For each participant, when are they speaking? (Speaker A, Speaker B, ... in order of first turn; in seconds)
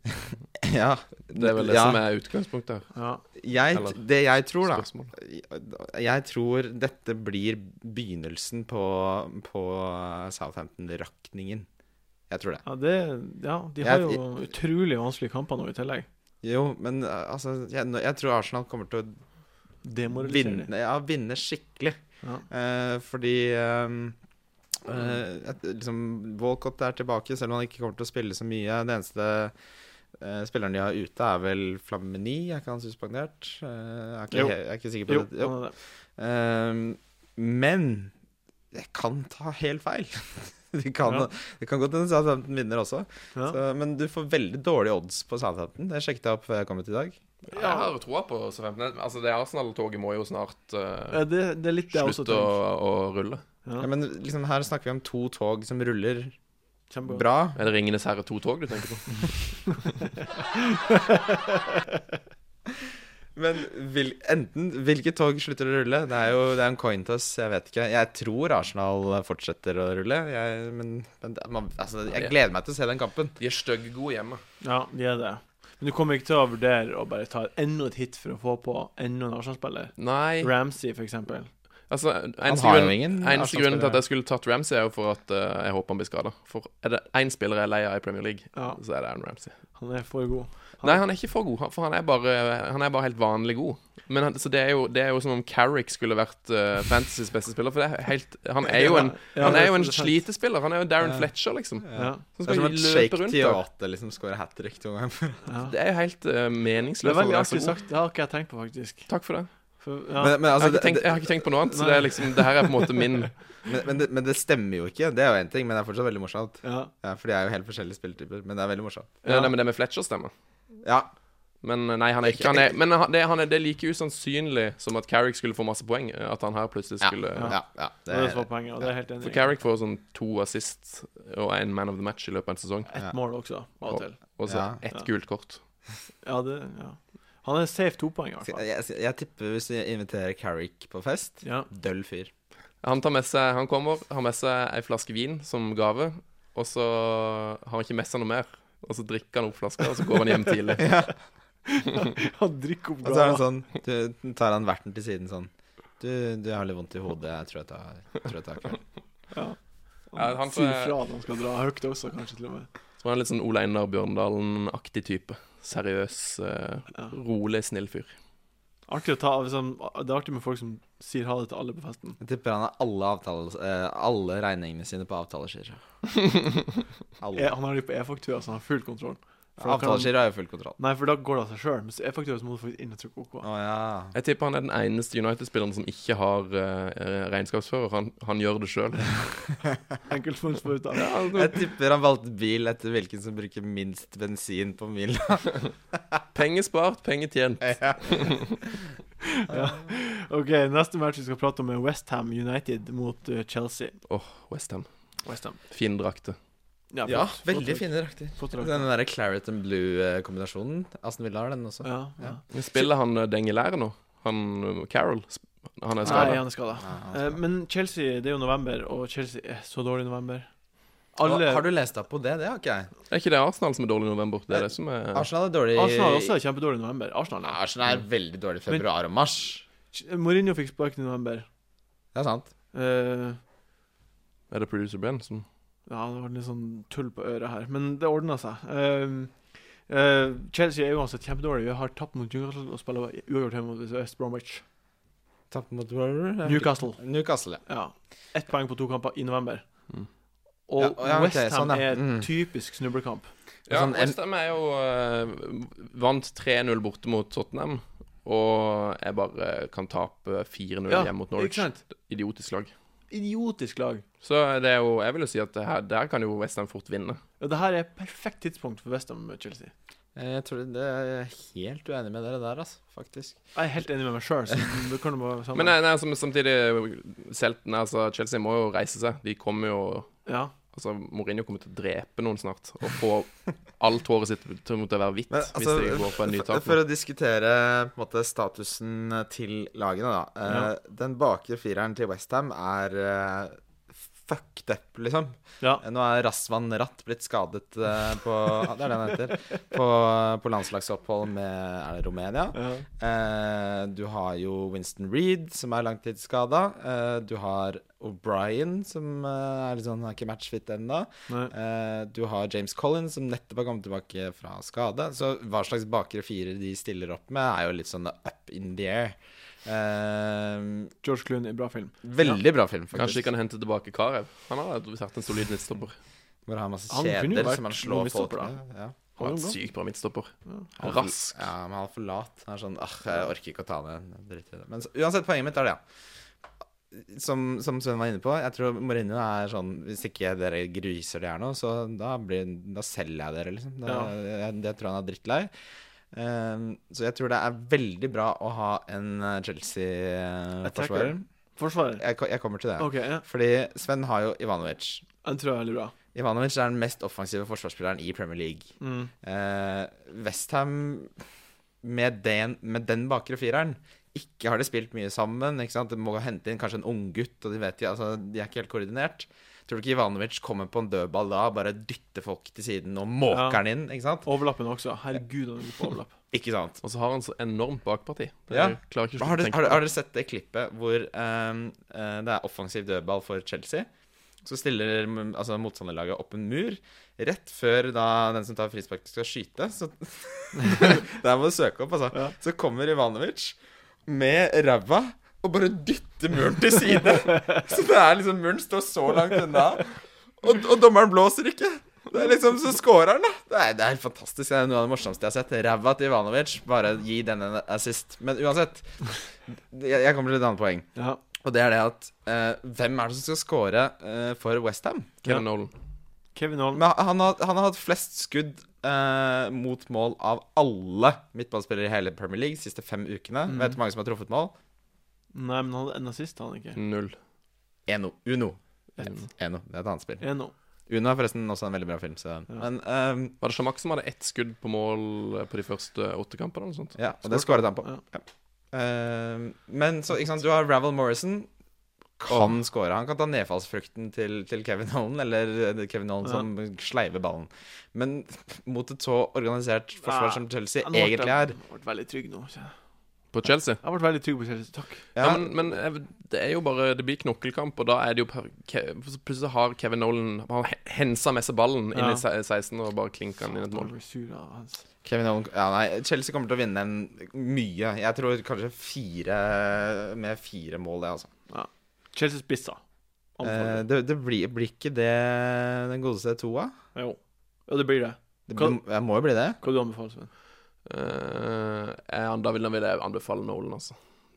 Speaker A: 0.6-2.0, 3.4-11.7, 12.3-12.6, 13.8-14.2, 16.4-19.1, 20.1-22.0, 22.5-24.1, 24.8-29.5, 30.2-38.1, 38.7-47.2, 53.8-56.3, 57.1-57.6, 63.3-73.3, 82.5-84.0, 101.8-105.4, 110.2-111.7, 113.7-119.2, 120.8-121.1, 122.2-122.7, 127.0-128.4, 134.4-134.8, 138.4-142.3, 150.8-151.1, 153.0-158.8, 172.2-175.8, 177.2-177.5, 179.6-180.8, 183.4-184.1, 191.3-195.5, 197.6-198.5, 199.5-199.8, 207.0-212.4, 216.0-217.4, 221.2-222.9, 224.5-226.3, 227.4-229.6, 232.1-232.5, 245.5-247.6, 250.8-252.3, 253.7-254.2, 270.1-273.4, 285.3-293.6, 294.2-320.9, 322.0-323.2, 326.4-329.0, 330.8-335.8, 336.9-345.5, 346.1-351.2, 352.0-355.0, 356.1-358.7, 359.2-361.1, 361.8-374.3, 376.3-376.8, 378.5-383.9, 384.4-409.0, 409.5-410.9, 411.4-415.2, 416.7-424.5, 427.9-428.6, 429.3-430.2, 430.9-433.4, 437.0-441.5, 442.2-451.6, 455.1-455.7, 465.0-471.3, 473.4-476.7, 478.5-479.6
Speaker B: 1.3-2.9, 3.7-4.0, 4.6-5.1, 47.5-51.3, 51.9-53.4, 57.5-59.9, 73.4-74.4, 80.0-80.5, 81.9-89.5, 90.8-103.6, 105.6-107.8, 109.1-109.5, 110.6-113.4, 119.2-120.3, 121.6-127.5, 129.2-132.9, 133.9-135.6, 142.8-150.9, 160.2-160.9, 163.0-168.1, 184.1-189.4, 190.9-191.5, 196.3-198.6, 204.1-204.9, 205.7-206.3, 212.5-216.4, 223.1-225.3, 234.5-235.4, 253.7-262.7, 264.2-267.2, 275.5-286.8, 322.9-325.9, 329.2-331.4, 376.8-379.8, 415.2-415.7, 426.8-427.2, 433.4-437.0, 453.3-453.8, 455.1-463.9, 480.9-484.0
Speaker C: 2.9-3.2, 12.6-16.1, 19.8-20.7, 34.3-35.7, 43.3-43.6, 47.5-47.9, 51.1-52.6, 56.9-57.2, 60.5-62.0, 74.6-81.5, 88.5-88.8, 89.7-91.0, 98.6-100.2, 101.9-102.2, 105.5-105.7, 107.0-109.1, 109.8-110.4, 111.7-113.0, 116.6-116.9, 119.2-119.5, 128.1-129.4, 132.9-134.2, 136.2-138.6, 141.4-141.7, 151.7-153.4, 159.3-162.7, 168.9-172.2, 177.3-180.2, 180.8-183.4, 190.1-191.1, 199.2-203.9, 205.2-205.6, 206.9-208.9, 211.8-212.4, 216.0-220.5, 221.1-221.7, 225.7-227.6, 229.9-231.5, 232.7-233.4, 235.9-244.6, 246.4-247.0, 247.6-249.7, 250.7-253.3, 260.9-261.8, 263.1-264.0, 267.4-269.7, 273.5-275.7, 280.2-280.5, 302.5-302.9, 321.0-322.4, 326.9-328.6, 329.2-329.6, 343.9-344.1, 350.6-352.0, 352.8-353.2, 355.2-355.9, 358.8-359.1, 373.3-373.6, 374.2-376.1, 410.9-411.2, 416.3-416.8, 423.5-423.8, 425.3-426.8, 429.0-429.2, 430.2-430.5, 437.2-438.0, 450.0-452.7, 453.8-455.0, 461.9-462.2, 463.7-464.8, 471.5-472.8, 473.4-473.8, 476.9-478.8, 479.6-480.3